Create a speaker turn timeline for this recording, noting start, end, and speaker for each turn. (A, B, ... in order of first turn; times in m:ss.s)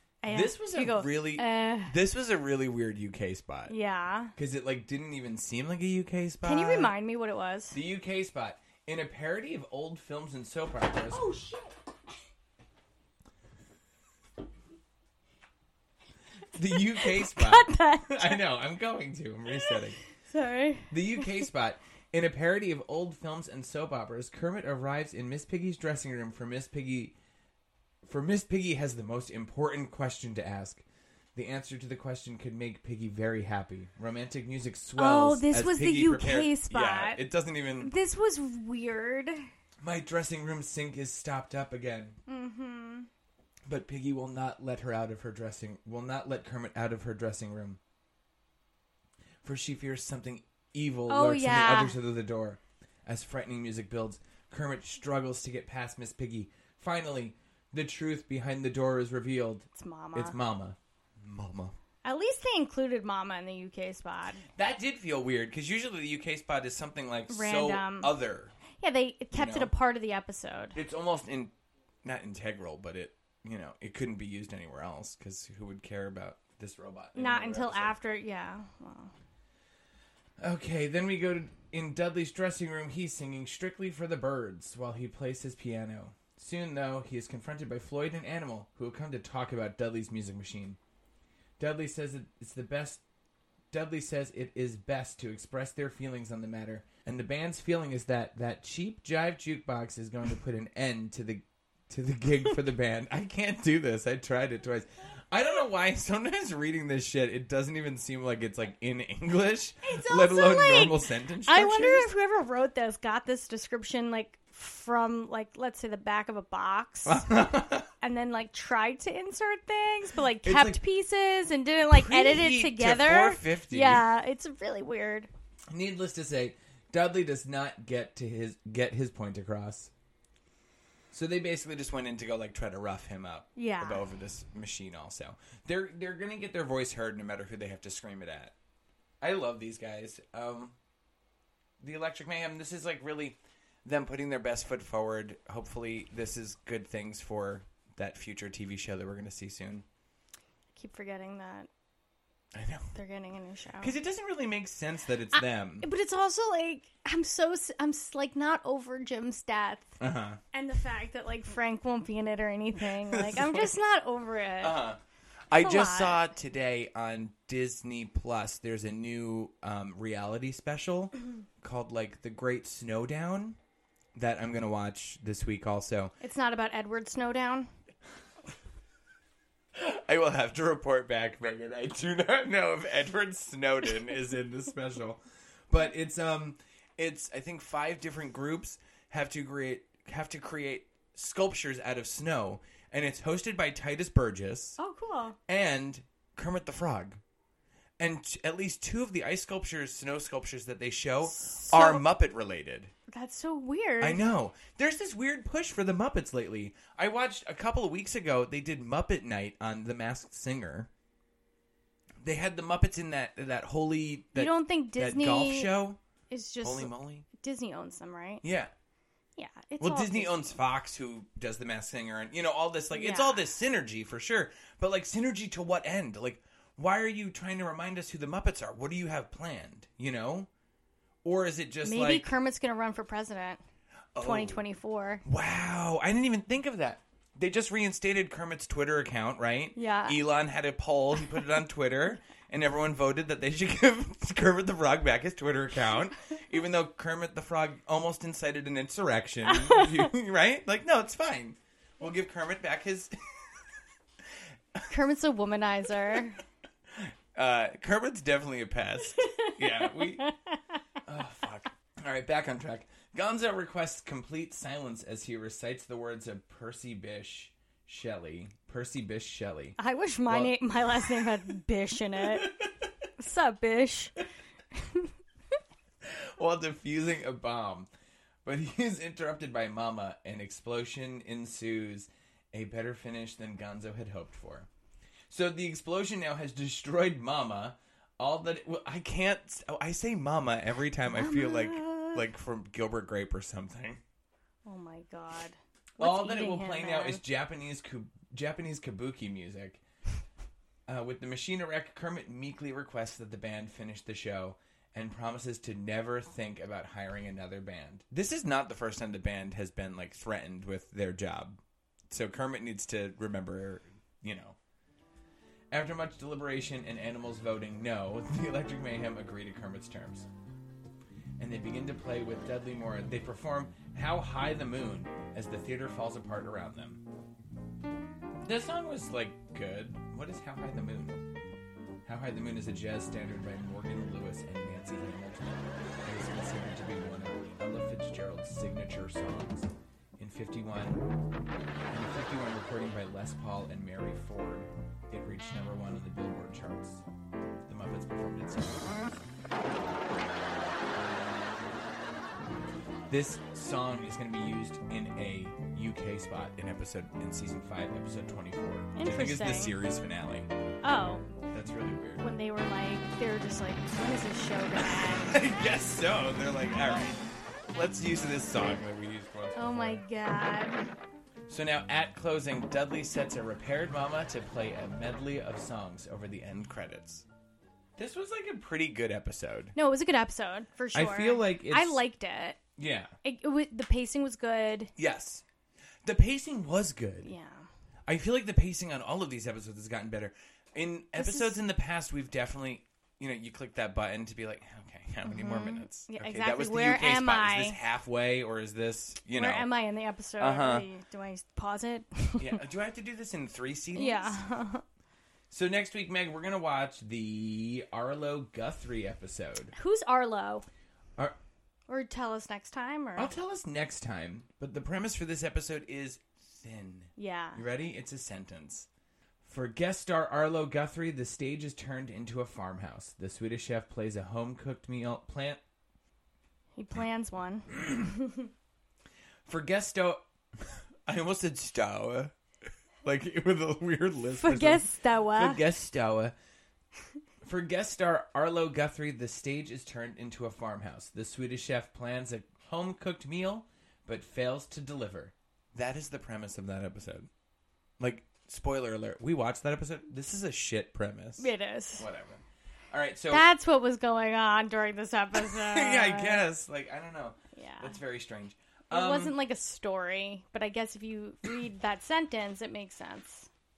0:00.2-0:02.0 A
0:00.3-0:03.7 B
0:03.7-0:04.3 A
0:04.4-0:06.9 B
0:06.4-0:07.8 A
0:07.7-0:11.2 B
0:11.1-0:11.8 A
0:16.5-0:20.0 B
0:16.9-0:18.4 A
0:19.5-0:21.3 A
0:20.9-0:27.1 B
0:28.0-0:30.8 B
0:31.4-0:37.9 B
0:35.0-0:37.2 A
0:37.8-0:39.5 A
0:39.8-0:42.2 B
0:42.3-0:43.1 A
0:43.7-0:47.8 B
0:49.4-1:01.8 B
0:51.1-0:52.0 A
0:59.8-1:00.4 A
1:02.0-1:04.4 A
1:04.4-1:08.6 B
1:07.3-1:08.2 A
1:08.8-1:10.8 A
1:09.3-1:09.7 B
1:10.8-1:11.5 B
1:12.0-1:18.0 B
1:17.2-1:19.1 A
1:20.4-1:30.8 B
1:31.6-1:33.0 B
1:33.7-1:52.1 B
1:49.8-1:57.3 A
1:57.0-1:57.9 B
1:58.0-2:05.3 A
2:00.4-2:00.8 B
2:01.9-2:04.0 B
2:05.7-2:09.9 B
2:11.1-2:18.5 B
2:13.6-2:14.0 A
2:19.2-2:20.8 B
2:21.8-2:29.8 B
2:30.8-2:31.7 A
2:32.6-2:32.9 B
2:33.0-2:33.9 A
2:33.8-2:35.9 B
2:35.3-2:40.0 A
2:40.0-2:40.4 B
2:40.5-2:44.8 A
2:43.1-2:43.7 B
2:44.6-2:45.0 B
2:45.5-2:53.6 B
2:45.6-2:46.2 A
2:54.2-2:56.1 B
2:56.2-2:57.7 A
2:59.8-3:14.8 B
3:14.8-3:15.4 A
3:15.5-3:17.2 B
3:18.0-3:22.9 B
3:21.4-3:22.1 A
3:23.1-3:24.2 A
3:24.0-3:30.9 B
3:32.2-3:36.0 B
3:34.4-3:35.7 A
3:36.3-3:38.4 A
3:36.6-3:37.3 B
3:38.4-3:38.7 B
3:39.4-3:40.5 A
3:39.8-3:50.5 B
3:42.9-3:43.4 A
3:51.2-3:52.3 B
3:51.8-3:53.6 A
3:54.2-3:54.6 B
3:54.2-3:55.2 A
3:55.2-4:13.1 B
3:59.8-4:00.2 A
4:09.5-4:10.1 A
4:14.9-4:16.4 A
4:17.0-4:20.3 B
4:19.2-4:20.5 A
4:21.1-4:29.8 B
4:29.8-4:32.5 A
4:30.3-4:31.3 B
4:32.2-4:32.5 B
4:33.2-4:34.2 A
4:34.8-4:35.1 A
4:36.1-4:37.9 B
4:38.4-4:44.7 B
4:45.3-4:54.0 B
4:51.1-4:52.2 A
4:54.7-4:57.2 A
4:56.0-4:59.8 B
5:00.9-5:11.6 B
5:12.1-5:14.6 B
5:15.7-5:20.3 B
5:21.4-5:27.0 B
5:28.4-5:31.2 B
5:32.1-5:41.0 B
5:41.9-5:47.0 B
5:47.7-5:49.2 B
5:53.1-6:00.5 B
5:58.9-5:59.7 A
6:00.8-6:01.3 A
6:01.5-6:02.2 B
6:02.2-6:05.4 A
6:04.8-6:07.2 B
6:07.7-6:10.0 B
6:09.6-6:10.8 A
6:11.5-6:17.2 B
6:18.0-6:19.8 B
6:19.8-6:22.6 A
6:20.9-6:22.0 B
6:22.8-6:23.1 B
6:23.2-6:24.9 A
6:25.0-6:25.4 B
6:26.0-6:27.3 B
6:27.2-6:27.7 A
6:28.1-6:39.7 B
6:31.2-6:31.6 A
6:35.3-6:37.8 A
6:39.4-6:42.6 A
6:40.4-6:40.9 B
6:42.4-6:44.4 B
6:44.0-6:44.8 A
6:45.5-6:49.7 B
6:49.8-6:50.7 A
6:51.9-6:53.3 A
6:53.2-6:58.9 B
6:57.2-6:57.6 A
6:59.4-7:05.6 B
7:06.8-7:08.5 A
7:09.5-7:12.3 B
7:13.0-7:16.3 B
7:14.4-7:15.6 A
7:17.4-7:27.3 B
7:28.0-7:33.5 B
7:31.4-7:32.1 A
7:33.3-7:36.4 A
7:35.4-7:39.3 B
7:37.6-7:38.0 A
7:38.9-7:43.5 A